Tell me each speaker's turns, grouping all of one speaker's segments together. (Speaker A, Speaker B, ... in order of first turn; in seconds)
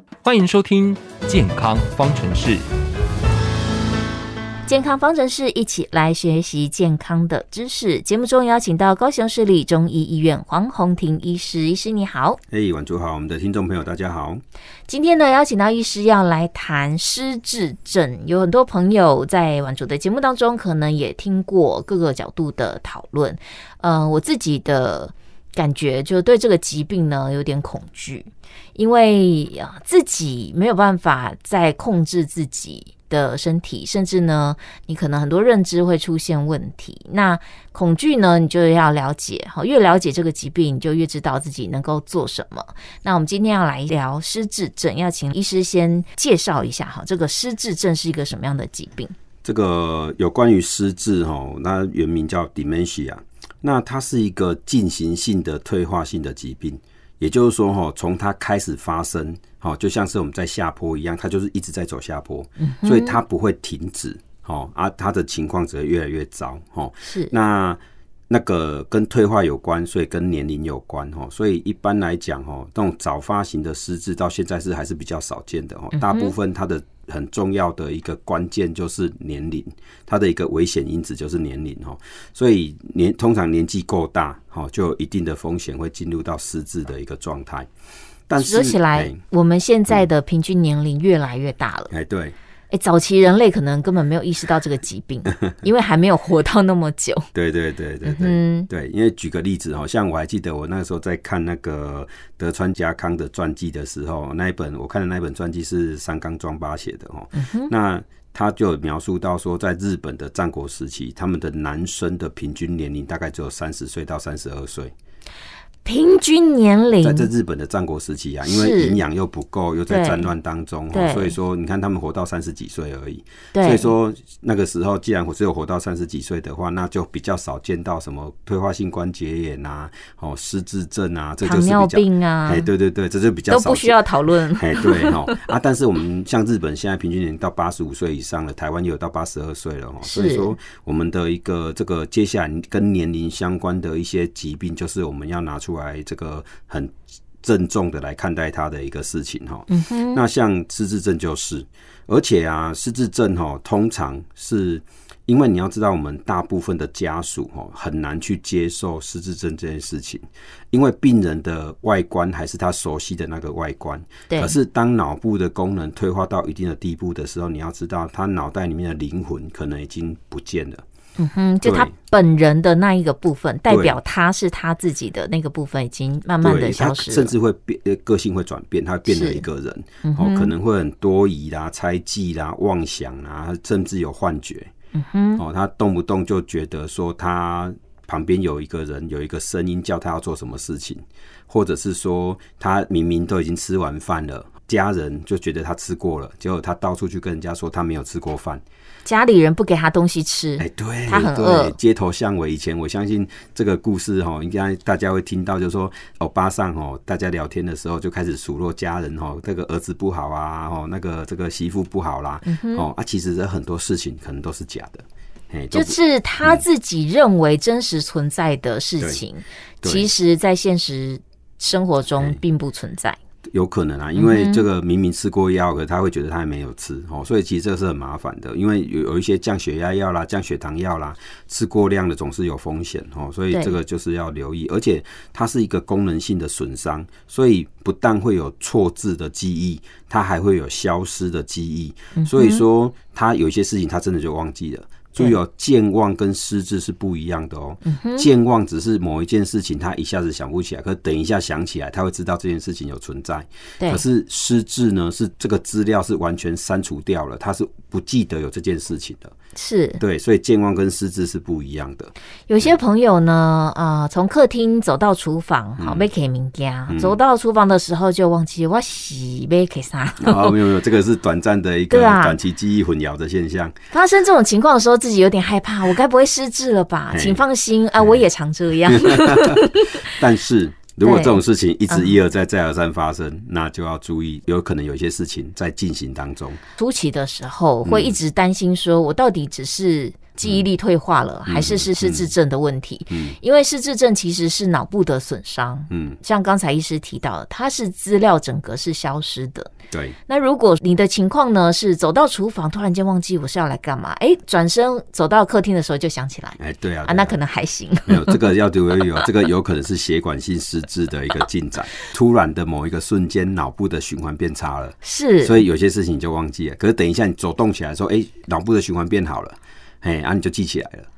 Speaker A: 0.2-2.6
Speaker B: 4.7-12.4, 14.9-49.1, 62.6-63.2, 67.0-67.3, 75.9-76.3, 88.4-91.9, 92.7-97.3, 98.0-98.7, 107.3-107.7, 115.8-117.3, 118.4-119.0, 119.9-120.2, 120.9-121.3, 123.5-123.9, 131.4-132.7, 133.5-135.4, 140.0-140.5, 149.7-150.2, 164.3-164.6, 171.2-177.3, 179.1-179.4, 180.0-180.5, 184.9-185.4, 199.0-201.7, 212.4-212.9, 215.7-223.2, 224.2-224.6, 242.2-242.6, 247.8-248.3, 259.6-260.0, 262.5-270.6, 271.9-272.4, 273.9-280.1, 281.0-282.1, 286.8-299.7, 300.3-308.4, 315.0-315.6
Speaker C: 12.5-14.4, 49.4-87.7, 88.3-89.2, 91.9-92.3, 97.3-114.9, 117.0-134.0, 134.5-170.8, 171.6-171.9, 173.7-174.0, 176.4-184.7, 185.4-198.6, 200.6-216.6, 219.8-220.1, 223.5-259.3, 260.0-262.7, 265.8-266.1, 266.9-267.2, 270.2-273.8, 277.1-277.4, 278.9-286.6, 287.8-288.2, 291.5-292.3, 293.1-293.4, 295.9-296.2, 299.9-300.1, 306.6-307.4, 308.1-321.1